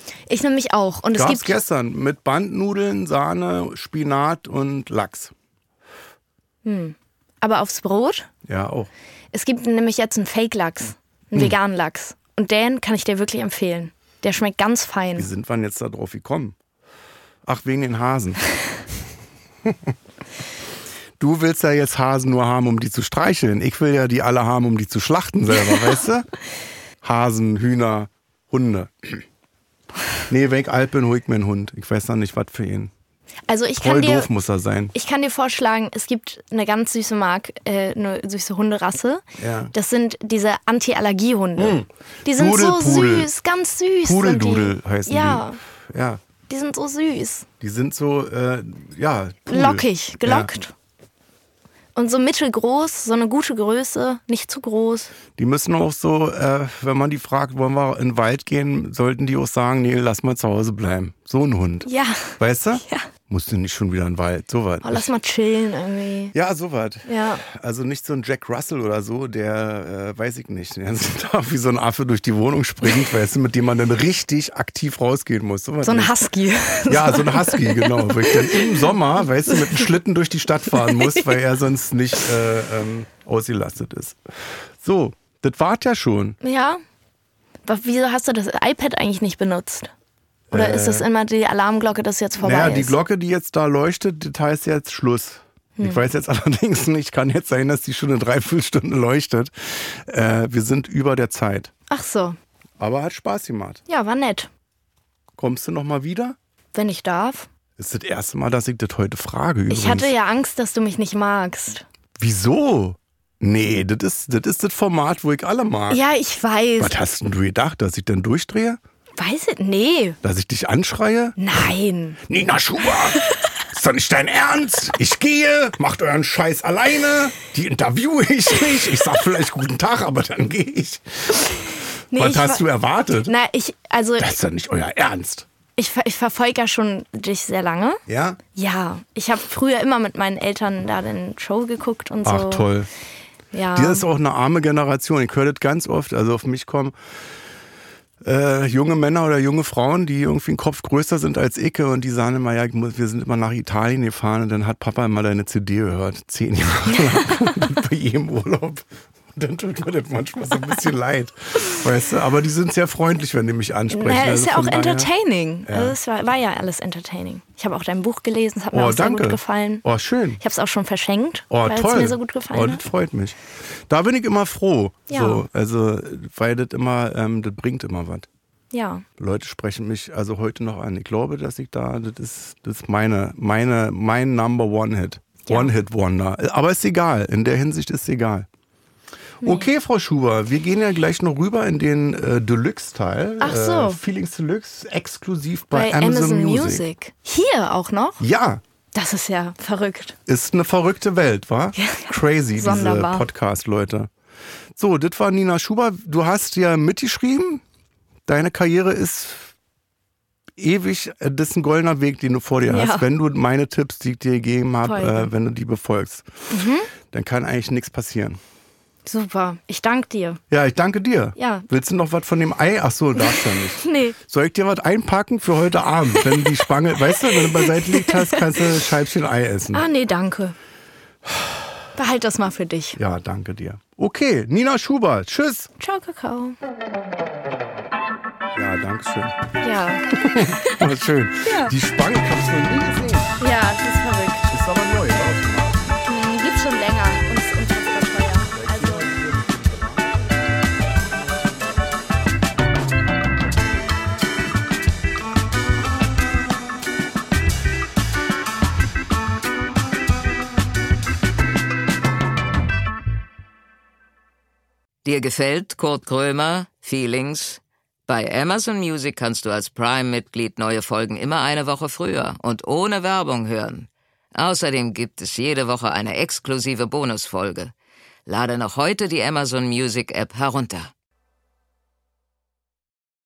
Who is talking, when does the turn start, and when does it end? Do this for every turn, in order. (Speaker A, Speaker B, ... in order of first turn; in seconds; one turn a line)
Speaker A: 0.3-1.6
Speaker B: 1.1-5.3
Speaker A: 6.6-8.3
Speaker B: 8.4-8.9
Speaker A: 9.3-15.3
Speaker B: 15.2-16.6
Speaker B: 17.4-18.4
Speaker B: 19.6-19.9
Speaker B: 21.2-26.3
Speaker B: 27.0-29.2
Speaker B: 30.3-32.9
Speaker A: 33.5-34.3
Speaker B: 33.8-34.9
Speaker A: 34.9-45.6
Speaker B: 39.4-39.7
Speaker B: 41.6-43.3
Speaker B: 44.0-46.2
Speaker A: 46.5-47.5
Speaker B: 47.6-50.5
Speaker A: 49.5-50.7
Speaker A: 51.9-55.1
Speaker B: 55.4-65.1
Speaker A: 61.9-63.1
Speaker A: 64.8-66.3
Speaker B: 66.3-76.1
Speaker A: 67.0-67.4
Speaker A: 75.8-78.8
Speaker B: 76.9-84.2
Speaker A: 79.5-79.9
Speaker A: 80.7-81.3
Speaker B: 84.8-86.4
Speaker A: 86.4-86.8
Speaker A: 87.7-89.9
Speaker B: 90.5-91.0
Speaker A: 90.5-93.0
Speaker B: 92.4-101.7
Speaker A: 95.8-96.0
Speaker A: 101.9-102.4
Speaker B: 102.8-103.8
Speaker A: 103.9-104.5
Speaker B: 105.4-106.3
Speaker A: 106.7-107.5
Speaker B: 107.8-110.1
Speaker A: 109.7-111.8
Speaker B: 112.2-116.0
Speaker A: 115.9-116.9
Speaker B: 116.8-118.8
Speaker A: 119.2-120.2
Speaker B: 120.2-121.4
Speaker A: 121.4-122.2
Speaker B: 122.3-133.3
Speaker A: 132.1-132.7
Speaker A: 133.2-134.3
Speaker B: 134.2-135.5
Speaker A: 135.8-138.0
Speaker B: 138.1-138.4
Speaker A: 138.5-142.7
Speaker B: 142.2-142.9
Speaker A: 143.5-144.1
Speaker B: 143.7-146.9
Speaker B: 148.2-165.1
Speaker A: 156.9-157.4
Speaker A: 163.9-169.8
Speaker B: 165.7-165.9
Speaker B: 168.7-170.4
Speaker A: 170.4-172.8
Speaker B: 171.5-173.4
Speaker B: 173.9-178.3
Speaker A: 175.1-175.4
Speaker A: 178.7-179.0
Speaker B: 179.2-188.5
Speaker A: 185.4-185.7
Speaker B: 189.4-196.8
Speaker A: 193.4-194.0
Speaker A: 195.7-198.2
Speaker B: 198.2-198.6
Speaker A: 198.9-200.2
Speaker B: 200.3-204.1
Speaker A: 201.8-203.2
Speaker B: 204.7-207.6
Speaker B: 208.3-209.5
Speaker B: 210.6-216.3
Speaker A: 212.7-213.1
Speaker A: 214.8-215.3
Speaker A: 216.5-216.9
Speaker B: 217.1-218.4
Speaker A: 219.1-220.4
Speaker B: 220.5-229.8
Speaker A: 221.4-221.7
Speaker A: 223.1-224.2
Speaker A: 226.3-226.5
Speaker A: 227.1-228.6
Speaker A: 229.7-230.6
Speaker A: 231.9-233.0
Speaker B: 233.0-235.7
Speaker A: 235.8-236.6
Speaker B: 238.5-239.3
Speaker A: 239.6-240.8
Speaker B: 240.1-243.3
Speaker A: 241.4-241.7
Speaker A: 243.4-244.5
Speaker B: 244.5-246.0
Speaker A: 246.1-249.1
Speaker B: 248.5-250.4
Speaker C: 265.0-277.7
Speaker C: 278.3-280.9